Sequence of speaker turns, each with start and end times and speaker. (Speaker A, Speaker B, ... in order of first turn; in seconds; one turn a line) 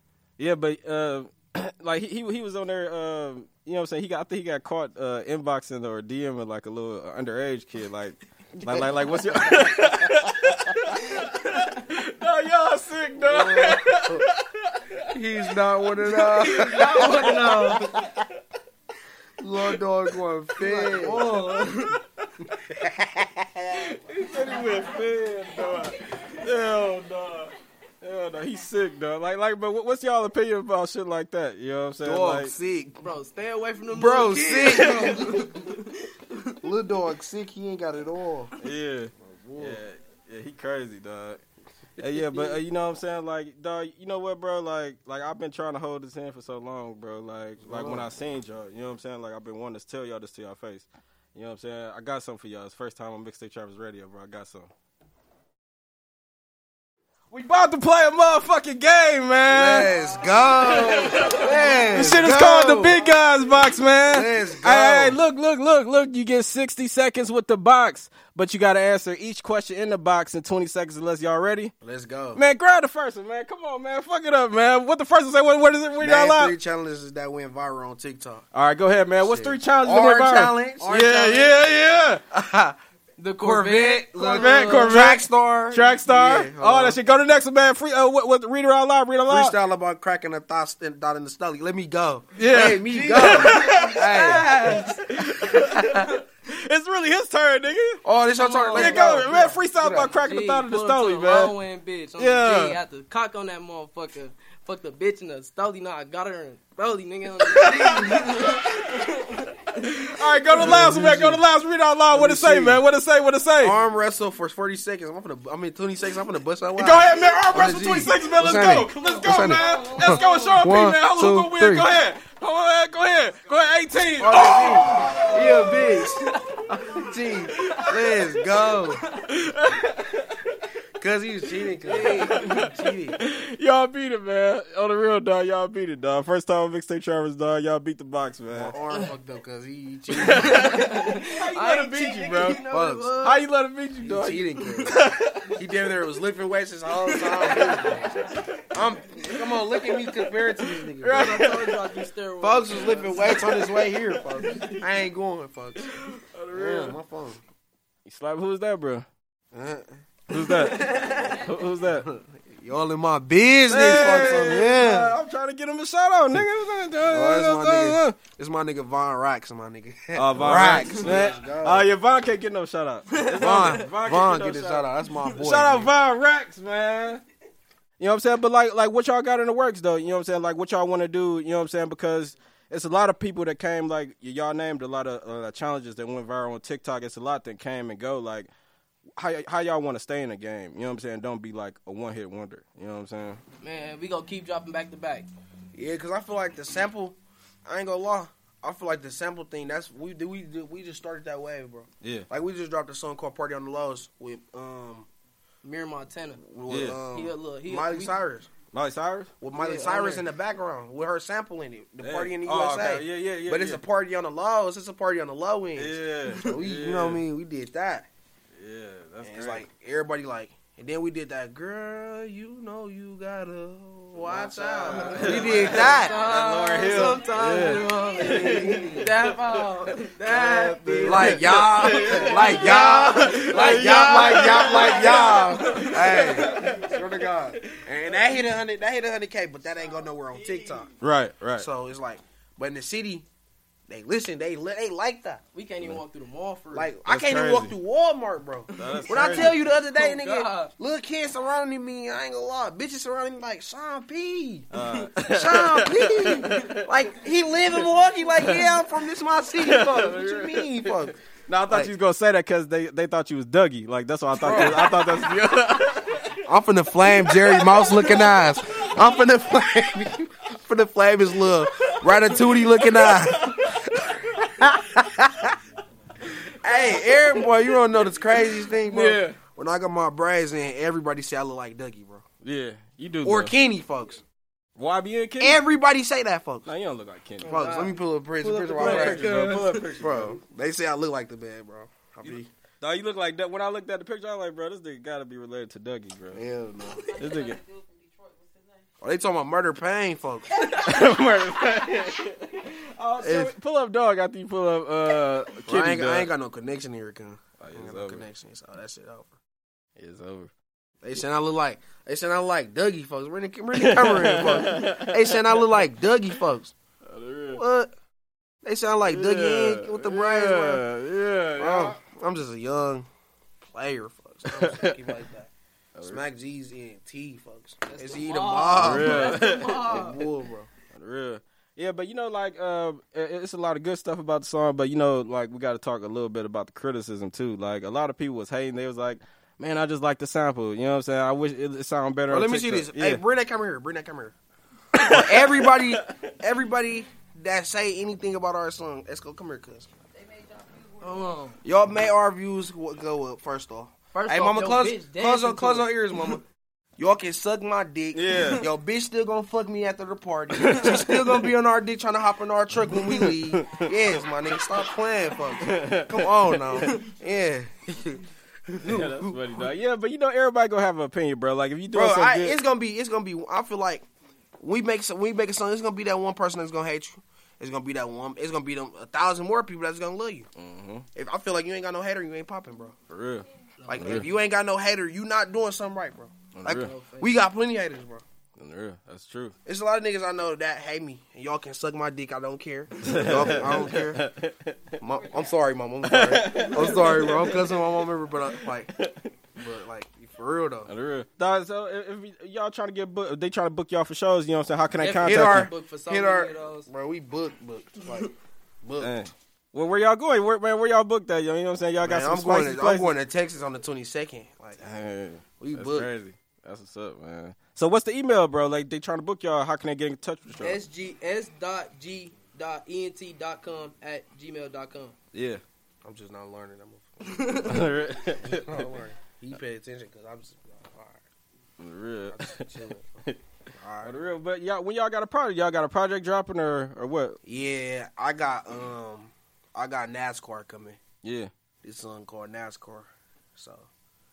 Speaker A: 0.4-18.3
Speaker B: 13.2-14.2
Speaker B: 15.1-17.9
Speaker C: 16.4-18.0
Speaker B: 19.4-21.4
Speaker C: 20.6-22.0
Speaker A: 20.6-21.7
Speaker B: 22.7-23.8
Speaker A: 23.7-32.5
Speaker B: 32.0-33.0
Speaker C: 33.0-36.5
Speaker B: 33.9-35.6
Speaker A: 34.7-35.0
Speaker B: 36.6-38.5
Speaker A: 38.6-41.4
Speaker B: 39.2-39.8
Speaker A: 42.0-54.7
Speaker B: 47.6-48.1
Speaker A: 57.3-59.9
Speaker B: 59.5-63.0
Speaker A: 60.6-71.7
Speaker B: 64.1-65.2
Speaker B: 71.8-72.4
Speaker A: 72.3-76.5
Speaker B: 76.0-78.5
Speaker A: 78.5-82.2
Speaker B: 79.2-81.6
Speaker B: 82.3-82.8
Speaker C: 83.2-85.0
Speaker B: 83.4-87.0
Speaker A: 84.2-89.5
Speaker B: 89.3-94.5
Speaker A: 92.3-98.0
Speaker C: 92.9-95.0
Speaker B: 98.0-100.1
Speaker C: 98.3-109.7
Speaker A: 98.7-101.5
Speaker A: 102.2-102.8
Speaker A: 107.4-108.9
Speaker A: 109.7-113.8
Speaker B: 110.5-111.4
Speaker B: 112.1-112.8
Speaker B: 113.6-121.9
Speaker A: 116.8-126.1
Speaker C: 118.9-120.6
Speaker B: 124.2-129.0
Speaker C: 124.7-126.6
Speaker A: 127.5-128.4
Speaker C: 128.4-129.2
Speaker A: 129.3-130.6
Speaker B: 131.0-133.2
Speaker C: 131.9-132.7
Speaker A: 131.9-138.7
Speaker B: 138.5-140.7
Speaker A: 140.2-142.6
Speaker C: 140.2-143.4
Speaker B: 142.7-143.4
Speaker A: 143.2-145.6
Speaker B: 144.0-145.0
Speaker B: 145.5-151.6
Speaker A: 147.1-149.2
Speaker C: 147.6-147.9
Speaker A: 149.9-151.8
Speaker C: 151.1-153.5
Speaker B: 152.4-155.9
Speaker A: 152.9-154.8
Speaker A: 155.8-156.9
Speaker B: 156.5-157.4
Speaker A: 158.1-159.1
Speaker B: 159.5-161.3
Speaker A: 160.3-162.1
Speaker C: 160.8-161.3
Speaker B: 161.9-165.2
Speaker A: 163.7-168.2
Speaker B: 167.1-171.9
Speaker A: 170.1-177.2
Speaker C: 170.7-171.3
Speaker C: 173.1-173.8
Speaker B: 173.4-175.9
Speaker C: 175.1-175.3
Speaker A: 178.0-188.5
Speaker A: 189.2-193.4
Speaker C: 193.6-195.3
Speaker B: 195.7-205.1
Speaker C: 205.6-206.4
Speaker B: 206.4-208.5
Speaker A: 206.7-207.0
Speaker C: 207.1-208.2
Speaker A: 208.7-209.3
Speaker B: 209.4-218.1
Speaker C: 209.5-210.2
Speaker A: 212.0-213.8
Speaker A: 215.8-217.2
Speaker A: 218.5-219.6
Speaker B: 219.2-226.1
Speaker A: 224.2-229.3
Speaker C: 224.3-236.6
Speaker B: 228.1-229.1
Speaker A: 230.3-237.8
Speaker B: 230.9-240.9
Speaker A: 241.0-241.7
Speaker B: 241.6-243.2
Speaker B: 243.9-245.4
Speaker C: 245.5-246.9
Speaker B: 246.7-254.7
Speaker A: 247.1-247.7
Speaker C: 248.8-250.7
Speaker A: 248.8-249.6
Speaker A: 254.7-256.8
Speaker C: 254.8-255.1
Speaker B: 255.2-261.9
Speaker C: 256.4-256.8
Speaker A: 258.4-258.7
Speaker A: 259.6-260.9
Speaker A: 261.5-266.4
Speaker B: 264.4-264.9
Speaker C: 264.4-265.1
Speaker B: 266.4-275.5
Speaker A: 267.1-269.1
Speaker A: 271.8-274.1
Speaker B: 276.6-282.2
Speaker A: 278.8-279.4
Speaker A: 282.4-283.5
Speaker B: 283.2-284.2
Speaker A: 284.8-285.6
Speaker B: 285.4-286.7
Speaker A: 286.6-287.5
Speaker C: 287.4-289.9
Speaker B: 287.4-289.4
Speaker A: 288.4-290.4
Speaker B: 290.0-292.5
Speaker A: 292.2-296.4
Speaker B: 296.3-297.1
Speaker A: 297.1-297.6
Speaker B: 299.0-300.6
Speaker A: 300.7-306.3
Speaker B: 303.2-303.5
Speaker B: 305.6-309.4
Speaker A: 307.6-308.2
Speaker A: 310.0-310.5
Speaker B: 311.0-316.7
Speaker A: 313.7-315.6
Speaker A: 317.1-317.6
Speaker B: 317.5-317.9
Speaker B: 318.6-320.9
Speaker A: 319.0-322.0
Speaker B: 321.6-323.1
Speaker B: 323.6-330.7
Speaker A: 324.4-325.1
Speaker A: 325.9-326.2
Speaker C: 327.9-330.3
Speaker A: 328.7-330.1
Speaker A: 330.9-343.2
Speaker B: 342.3-344.3
Speaker A: 344.9-345.6
Speaker B: 344.9-349.9
Speaker C: 351.0-351.6
Speaker B: 351.6-356.4
Speaker C: 354.1-356.3
Speaker B: 357.0-369.6
Speaker A: 358.1-358.6
Speaker A: 360.5-361.4
Speaker A: 363.1-363.9
Speaker A: 365.6-367.0
Speaker A: 368.8-372.6
Speaker B: 371.9-374.0
Speaker B: 374.6-380.5
Speaker A: 380.6-381.1
Speaker B: 381.1-382.9
Speaker A: 383.1-383.4
Speaker C: 383.8-384.4
Speaker B: 383.9-388.2
Speaker A: 384.0-384.2
Speaker A: 386.5-386.9
Speaker C: 386.6-387.4
Speaker A: 388.6-389.5
Speaker B: 389.6-394.2
Speaker A: 393.0-394.7
Speaker B: 395.0-398.9
Speaker A: 396.0-397.9
Speaker C: 396.5-397.4
Speaker A: 398.5-399.3
Speaker B: 399.6-400.9
Speaker A: 400.9-405.7
Speaker C: 404.9-406.9
Speaker B: 405.2-408.3
Speaker B: 408.8-409.2
Speaker A: 409.0-413.1
Speaker B: 412.0-414.8
Speaker A: 414.8-420.8
Speaker B: 415.6-416.1
Speaker C: 420.6-425.1
Speaker A: 425.3-425.6
Speaker B: 426.0-427.7
Speaker C: 427.2-427.9
Speaker A: 427.6-428.9
Speaker B: 428.4-431.2
Speaker A: 431.8-432.6
Speaker B: 432.3-433.2
Speaker B: 433.7-434.1
Speaker A: 434.0-437.4
Speaker B: 437.4-441.0
Speaker A: 441.2-441.5
Speaker B: 441.8-443.9